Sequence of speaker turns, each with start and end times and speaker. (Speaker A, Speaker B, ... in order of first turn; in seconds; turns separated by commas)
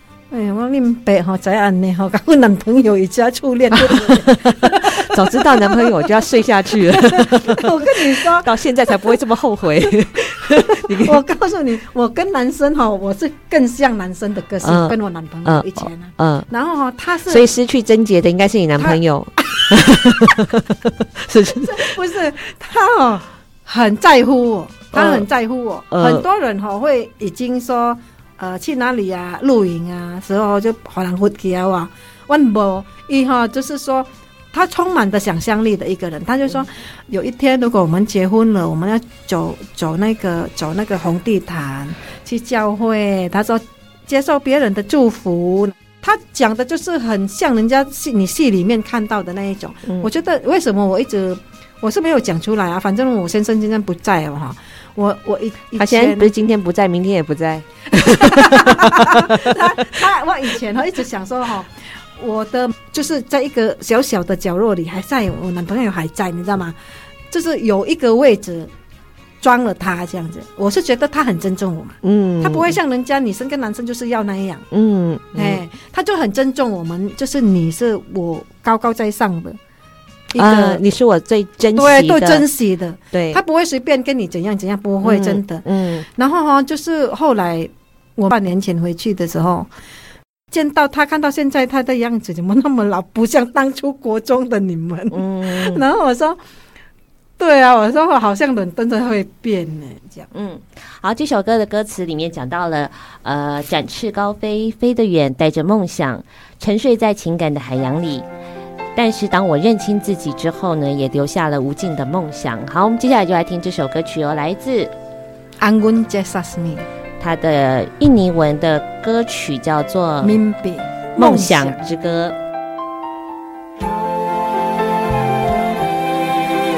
Speaker A: 0.3-6.2, Speaker B: 3.8-11.2, Speaker A: 6.9-8.5, Speaker A: 10.9-17.5, Speaker B: 14.6-16.5, Speaker B: 17.3-21.9, Speaker A: 18.8-19.7, Speaker A: 21.6-56.3, Speaker B: 24.9-25.2, Speaker B: 25.9-26.2, Speaker B: 55.8-60.0, Speaker A: 57.9-66.8, Speaker A: 67.3-68.7, Speaker A: 69.4-74.7, Speaker B: 72.0-72.8, Speaker B: 74.7-75.6, Speaker A: 75.3-79.6, Speaker A: 80.3-80.8, Speaker B: 80.4-82.5, Speaker A: 81.8-89.7, Speaker B: 83.1-83.4, Speaker B: 85.0-86.0, Speaker A: 90.5-96.4, Speaker B: 95.1-95.8, Speaker A: 97.4-100.3, Speaker B: 100.3-108.3, Speaker B: 109.0-114.9, Speaker A: 115.6-116.9, Speaker B: 117.2-120.4, Speaker A: 120.2-121.8, Speaker B: 121.2-122.4